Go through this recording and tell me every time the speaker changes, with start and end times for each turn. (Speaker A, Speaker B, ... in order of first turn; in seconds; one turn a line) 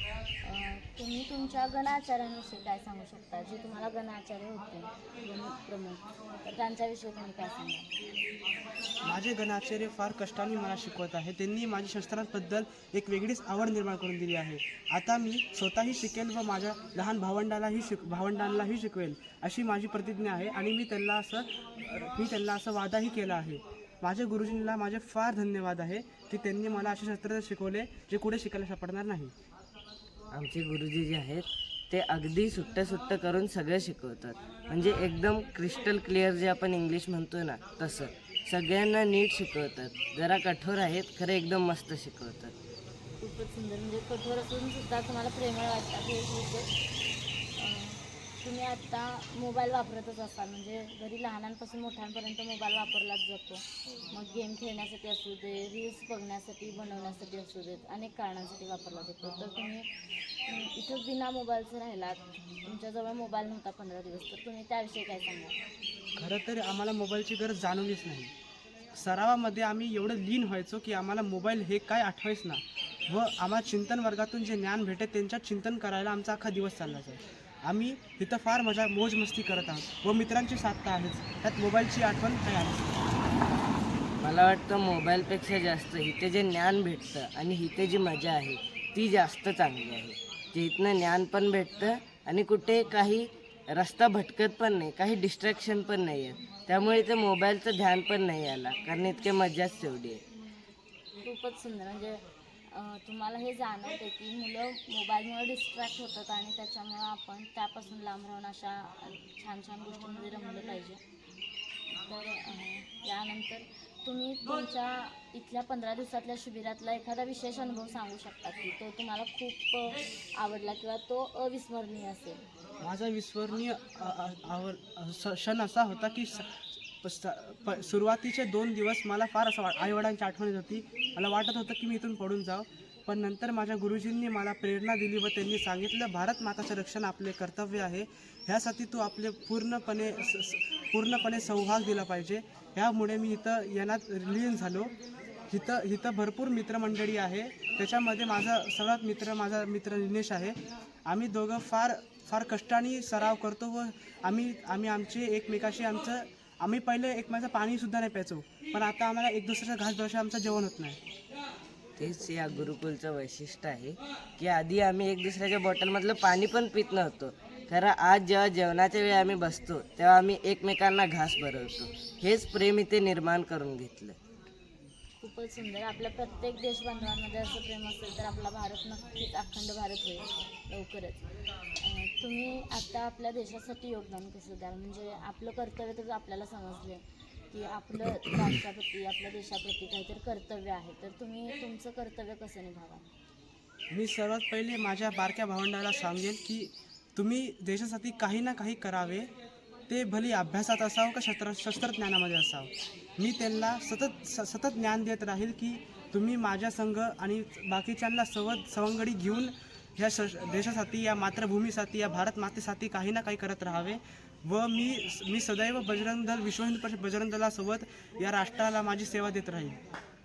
Speaker A: 0.4-7.9
Speaker B: 9.0-29.3
Speaker C: 30.3-42.5
Speaker A: 43.2-46.7
Speaker A: 47.5-59.9
Speaker A: 60.5-65.5
Speaker B: 66.2-68.3
Speaker B: 68.9-83.1
Speaker C: 84.2-100.2
Speaker A: 101.2-111.0
Speaker A: 112.0-122.4
Speaker B: 122.8-144.9
Speaker B: 145.5-161.0
Speaker C: 162.0-174.2
Speaker A: 175.2-193.1
Speaker B: 193.9-199.3
Speaker B: 199.9-219.8